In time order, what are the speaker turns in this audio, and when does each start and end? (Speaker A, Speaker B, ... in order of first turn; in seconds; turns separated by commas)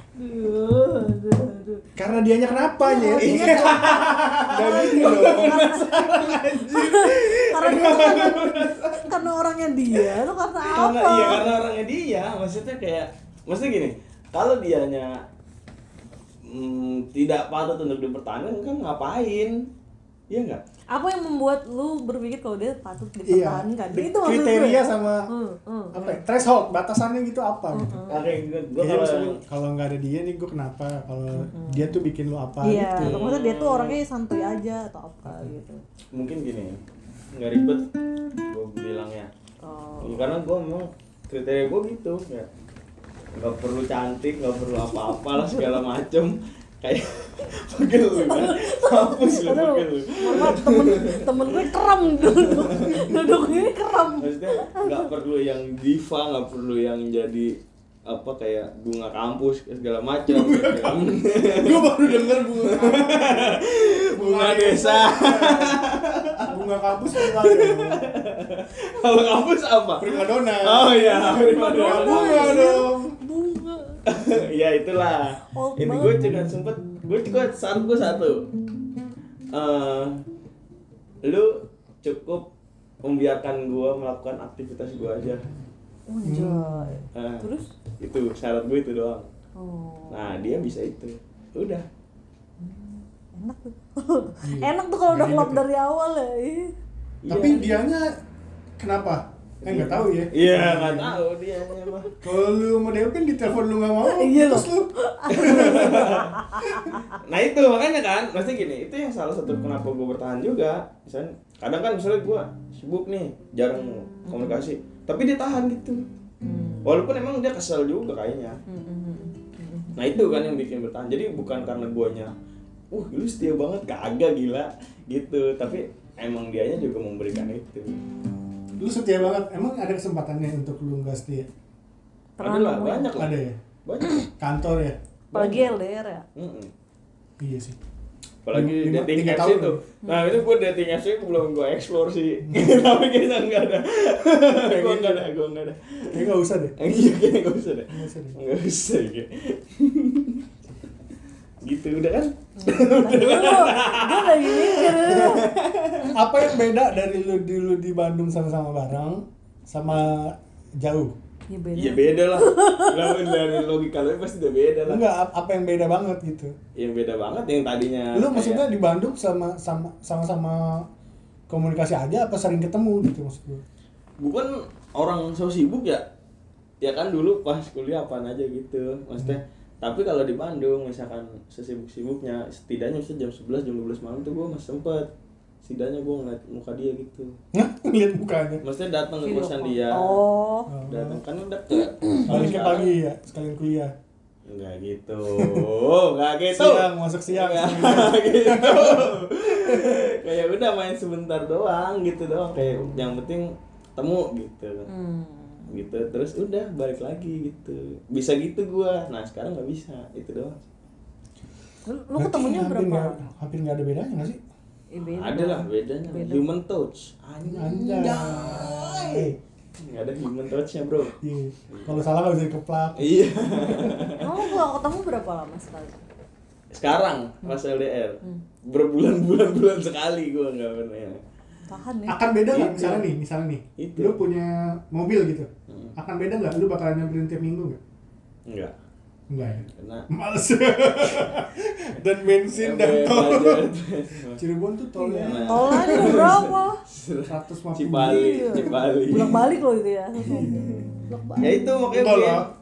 Speaker A: 0.1-1.9, Speaker B: 1.9-6.4, Speaker A: 2.5-11.6, Speaker C: 3.2-9.2, Speaker C: 9.9-15.2, Speaker C: 16.4-19.7, Speaker C: 20.3-20.6, Speaker A: 20.9-26.5, Speaker B: 23.2-25.3, Speaker B: 25.9-28.0, Speaker A: 27.7-28.3, Speaker C: 28.1-29.4, Speaker B: 28.8-33.2, Speaker A: 31.3-32.0, Speaker A: 32.6-35.8, Speaker C: 33.0-34.0, Speaker B: 35.3-35.5, Speaker C: 36.1-36.8, Speaker C: 37.3-37.9, Speaker C: 38.5-39.3, Speaker A: 39.6-40.3, Speaker C: 40.0-42.5, Speaker C: 43.4-51.6, Speaker A: 45.1-45.8, Speaker A: 48.1-55.1, Speaker C: 52.3-66.5, Speaker B: 60.3-65.8, Speaker B: 66.5-68.0, Speaker C: 67.1-72.8, Speaker B: 70.0-73.2, Speaker A: 71.2-74.0, Speaker C: 74.0-78.5, Speaker A: 75.4-76.4, Speaker C: 79.5-80.2, Speaker C: 81.2-82.5, Speaker C: 83.0-85.5, Speaker A: 86.1-87.7, Speaker B: 86.2-87.0, Speaker C: 87.1-87.5, Speaker C: 88.0-89.3, Speaker A: 89.5-90.6, Speaker C: 90.1-91.9, Speaker A: 92.6-96.7, Speaker B: 94.4-95.6, Speaker C: 97.2-97.7, Speaker B: 97.3-98.1, Speaker B: 98.8-101.2, Speaker C: 99.6-102.1, Speaker B: 102.2-106.9, Speaker A: 104.0-107.1, Speaker C: 105.3-106.4, Speaker C: 107.1-116.0, Speaker A: 114.3-114.6, Speaker A: 116.4-117.0, Speaker C: 116.8-118.6, Speaker A: 118.7-120.4, Speaker C: 120.0-122.3, Speaker C: 122.9-128.0, Speaker B: 128.8-131.5, Speaker A: 132.4-133.1, Speaker C: 132.4-134.2, Speaker B: 133.1-133.6, Speaker B: 134.4-135.0, Speaker C: 135.3-135.7, Speaker A: 135.3-136.2, Speaker C: 136.3-136.7, Speaker B: 137.4-137.8, Speaker C: 138.4-146.2, Speaker B: 138.5-139.8, Speaker A: 140.0-140.4, Speaker B: 142.4-142.7, Speaker B: 144.5-145.2, Speaker B: 146.1-146.8, Speaker C: 146.8-150.5, Speaker B: 147.9-148.4, Speaker C: 151.6-156.1, Speaker A: 152.6-155.5, Speaker B: 156.1-161.1, Speaker A: 161.5-163.6, Speaker C: 161.8-165.0, Speaker B: 164.9-166.5, Speaker C: 166.7-168.7, Speaker B: 168.1-170.8, Speaker B: 171.5-173.6, Speaker C: 174.2-176.0, Speaker C: 176.8-185.1, Speaker C: 185.6-187.3, Speaker B: 187.5-188.6, Speaker C: 188.6-190.2, Speaker A: 189.2-190.7, Speaker B: 190.7-191.2, Speaker C: 190.8-192.9, Speaker A: 192.1-192.6, Speaker B: 192.3-193.9, Speaker C: 194.5-204.9, Speaker B: 195.3-195.7, Speaker B: 196.5-200.0, Speaker B: 202.6-203.0, Speaker A: 204.9-205.7, Speaker C: 205.7-210.6, Speaker A: 211.8-213.2, Speaker B: 212.2-214.4, Speaker A: 214.9-216.4, Speaker C: 215.1-221.2, Speaker B: 217.4-219.4, Speaker B: 221.2-224.0, Speaker C: 221.7-222.1, Speaker C: 223.0-224.5, Speaker A: 224.2-226.0, Speaker C: 226.7-231.2, Speaker A: 231.7-232.3, Speaker B: 232.1-237.8, Speaker C: 232.5-233.1, Speaker C: 233.8-234.2, Speaker C: 235.7-235.9, Speaker C: 238.5-238.7, Speaker B: 239.3-243.7, Speaker C: 239.6-240.1, Speaker C: 242.5-244.4, Speaker B: 244.3-246.4, Speaker A: 245.0-246.8, Speaker C: 245.2-249.5, Speaker B: 247.3-248.6, Speaker A: 248.0-251.9, Speaker C: 250.3-250.9, Speaker C: 251.4-252.5, Speaker B: 251.9-252.5